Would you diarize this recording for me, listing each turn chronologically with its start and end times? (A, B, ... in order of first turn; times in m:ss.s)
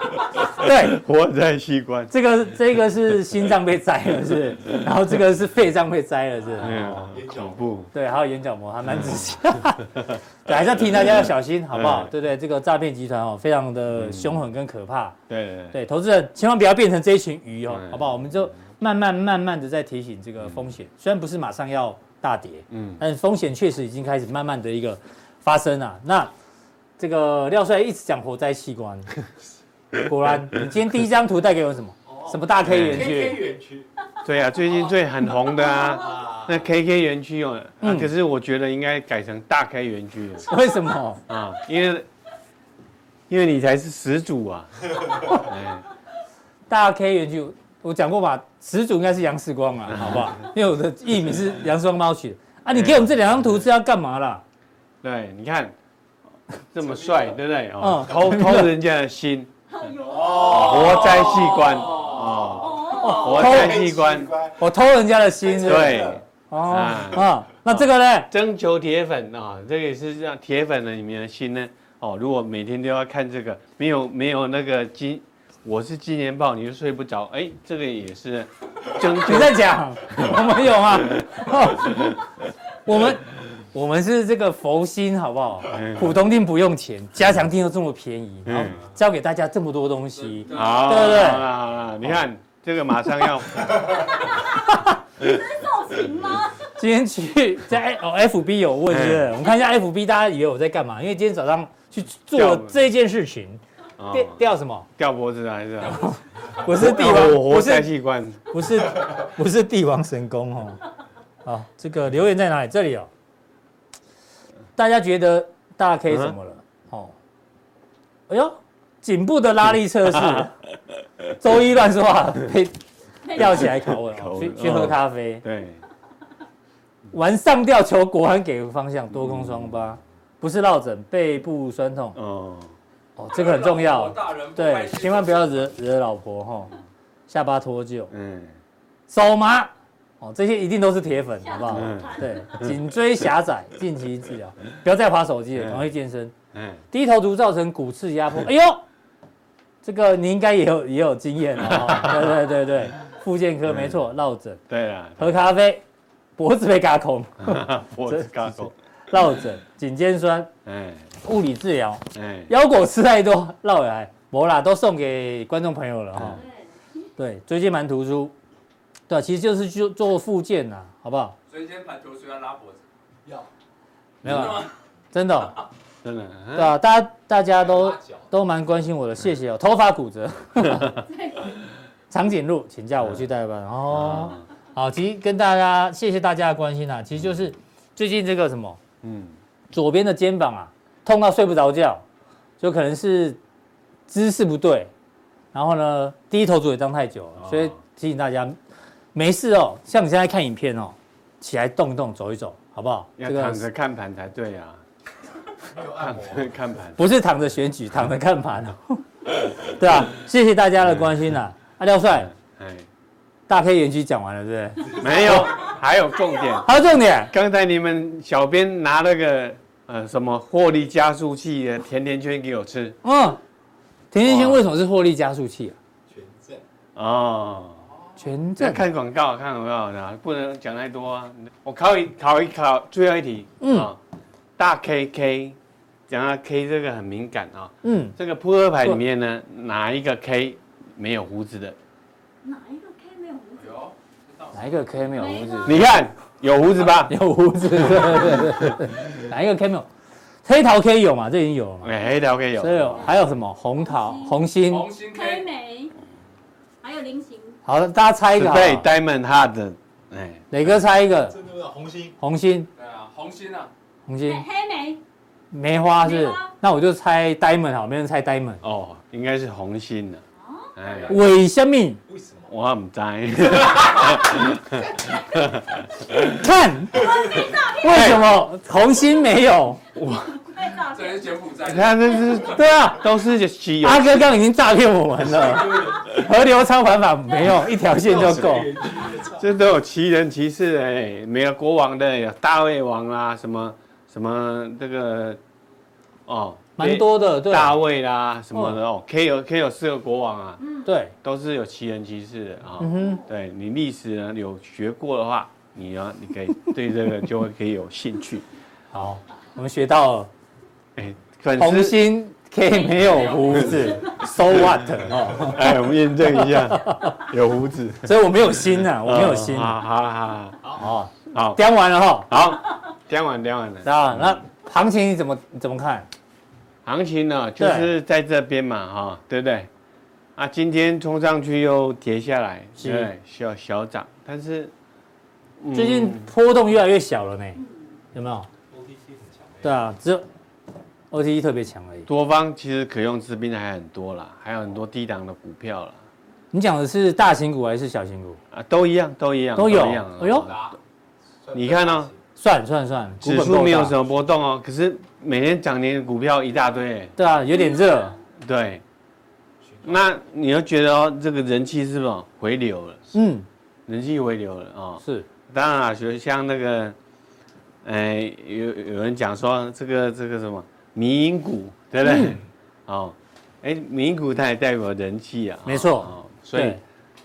0:00.3-0:02.1 A
0:00.6-0:01.0 B
0:02.1-0:07.1 B
0:06.6-0:07.9 A
0:06.7-0:07.7 C
0:07.9-0:15.2 B
0:11.7-0:12.1 A
0:14.0-0:14.4 A
0:15.3-0:15.8 A
0:15.7-0:26.3 B
0:17.7-0:18.5 A
0:22.7-0:23.0 A
0:27.0-0:29.1 B
0:30.0-0:33.4 B
0:32.1-0:33.9 C
0:32.6-0:33.1 A
0:34.2-0:40.5 A
0:35.9-0:36.7 C
0:37.8-0:38.1 B
0:40.4-0:41.2 B
0:41.3-0:42.0 A
0:43.3-0:45.8 A
0:46.7-0:54.4 B
0:49.9-0:50.3 A
0:52.7-0:53.1 A
0:55.0-0:55.7 A
0:56.7-0:59.5 A
0:56.8-0:57.4 C
0:57.8-0:58.7 B
0:59.7-1:03.3 D
1:00.0-1:04.7 C
1:00.4-1:04.3 A
1:02.9-1:03.8 B
1:04.6-1:08.3 B
1:05.4-1:06.2 C
1:05.6-1:20.3 A
1:19.2-1:22.2 B
1:22.8-1:31.5 B
1:25.7-1:26.2 A
1:28.4-1:28.8 A
1:30.2-1:31.3 E
1:30.5-1:34.1 A
1:34.5-1:35.0 B
1:35.2-1:36.7 D
1:36.8-1:43.6 B
1:38.9-1:39.3 A
1:42.4-1:42.7 A
1:44.0-1:44.4 A
1:44.1-1:44.9 B
1:45.0-1:48.5 A
1:45.9-1:47.9 B
1:48.5-1:50.8 B
1:51.4-1:53.1 B
1:54.8-1:57.1 B
1:58.3-2:00.6 B
2:01.4-2:05.4 B
2:03.4-2:05.8 A
2:07.1-2:12.2 B
2:09.2-2:09.7 A
2:12.1-2:12.7 A
2:13.2-2:16.7 B
2:13.3-2:15.5 E
2:17.3-2:18.1 B
2:18.1-2:18.6 A
2:19.1-2:26.3 B
2:21.4-2:22.6 D
2:21.7-2:22.7 A
2:25.6-2:25.9 A
2:26.5-2:26.8 A
2:26.9-2:28.8 B
2:29.8-2:34.6 B
2:34.7-2:35.4 A
2:35.2-2:35.8 B
2:36.4-2:40.5 B
2:37.4-2:38.7 A
2:40.6-2:41.1 A
2:41.2-2:46.4 B
2:42.1-2:42.5 A
2:46.1-2:46.4 A
2:46.3-2:46.8 D
2:47.2-2:48.3 B
2:49.1-2:51.4 B
2:51.5-2:52.8 E
2:54.2-2:55.6 B
2:54.2-2:54.5 A
2:54.2-2:54.7 E
2:56.0-2:56.7 A
2:56.5-3:01.0 B
2:57.7-2:58.2 C
3:01.1-3:01.6 D
3:02.1-3:08.8 B
3:03.9-3:04.4 A
3:09.0-3:09.3 A
3:09.7-3:12.0 B
3:12.6-3:13.4 B
3:14.1-3:14.9 B
3:15.5-3:18.6 B
3:19.1-3:23.6 B
3:23.2-3:24.8 A
3:25.7-3:26.6 C
3:26.0-3:27.0 A
3:27.0-3:29.0 B
3:29.6-3:32.3 B
3:32.2-3:32.8 A
3:33.5-3:35.6 B
3:35.0-3:36.7 A
3:36.6-3:37.3 B
3:37.3-3:43.0 A
3:43.0-3:43.4 B
3:44.1-3:45.8 B
3:44.2-3:44.6 A
3:46.1-3:46.6 C
3:46.9-3:47.9 A
3:48.2-3:48.8 B
3:48.6-3:54.0 A
3:53.6-3:53.9 B
3:54.6-3:55.6 A
3:56.1-4:01.8 A
3:57.8-3:58.2 B
4:02.4-4:03.8 D
4:03.6-4:04.6 E
4:04.5-4:05.9 B
4:05.2-4:05.8 D
4:05.6-4:07.2 A
4:07.1-4:09.9 B
4:07.8-4:08.8 A
4:10.4-4:11.9 B
4:11.8-4:13.1 A
4:12.6-4:14.9 B
4:13.8-4:14.4 D
4:14.6-4:15.5 E
4:15.0-4:15.9 D
4:16.8-4:17.6 D
4:17.6-4:18.8 B
4:18.4-4:20.5 A
4:20.5-4:21.3 B
4:21.2-4:22.1 C
4:22.2-4:22.7 B
4:22.7-4:23.7 E
4:24.1-4:24.4 B
4:24.2-4:25.0 D
4:25.5-4:28.6 B
4:26.0-4:26.5 D
4:28.6-4:30.2 A
4:30.4-4:31.1 D
4:30.8-4:31.2 A
4:31.1-4:32.0 B
4:32.1-4:32.5 C
4:32.5-4:36.4 A
4:34.7-4:35.2 C
4:36.3-4:37.2 B
4:36.9-4:38.4 D
4:37.8-4:39.8 B
4:37.9-4:38.2 A
4:39.9-4:40.4 A
4:40.4-4:41.5 D
4:40.9-4:42.5 E
4:41.6-4:44.3 A
4:42.5-4:43.1 B
4:43.8-4:48.7 B
4:45.3-4:46.1 C
4:48.0-4:49.6 C
4:49.3-4:55.4 A
4:56.3-5:00.6 A
4:56.8-4:57.8 B
5:00.6-5:00.9 D
5:00.8-5:01.1 B
5:01.2-5:08.4 A
5:02.8-5:03.2 B
5:02.8-5:03.2 D
5:08.9-5:10.3 B
5:11.0-5:12.0 A
5:11.6-5:17.2 B
5:12.9-5:14.1 D
5:13.0-5:13.9 E
5:14.5-5:20.6 A
5:18.0-5:19.8 B
5:20.7-5:22.3 B
5:21.2-5:21.6 A
5:22.3-5:24.4 A
5:23.8-5:26.1 B
5:26.8-5:29.7 A
5:27.6-5:27.9 B
5:30.4-5:34.7 A
5:32.8-5:33.1 B
5:35.6-5:36.3 A
5:35.7-5:37.6 B
5:37.6-5:37.9 D
5:38.1-5:38.5 B
5:38.7-5:39.8 C
5:39.6-5:40.2 B
5:41.1-5:42.1 B
5:42.0-5:46.0 A
5:46.5-5:48.4 B
5:48.5-5:50.6 A
5:49.6-5:50.5 B
5:50.2-5:50.8 C
5:51.4-5:52.2 C
5:51.5-5:52.1 A
5:52.4-5:53.9 B
5:53.2-5:57.2 A
5:57.2-5:58.2 B
5:57.8-5:58.2 D
5:58.4-5:58.8 A
5:59.6-6:00.1 C
5:59.8-6:03.0 A
6:03.1-6:03.5 B
6:03.9-6:06.9 A
6:07.8-6:16.8 A
6:12.0-6:12.4 B
6:15.6-6:16.8 B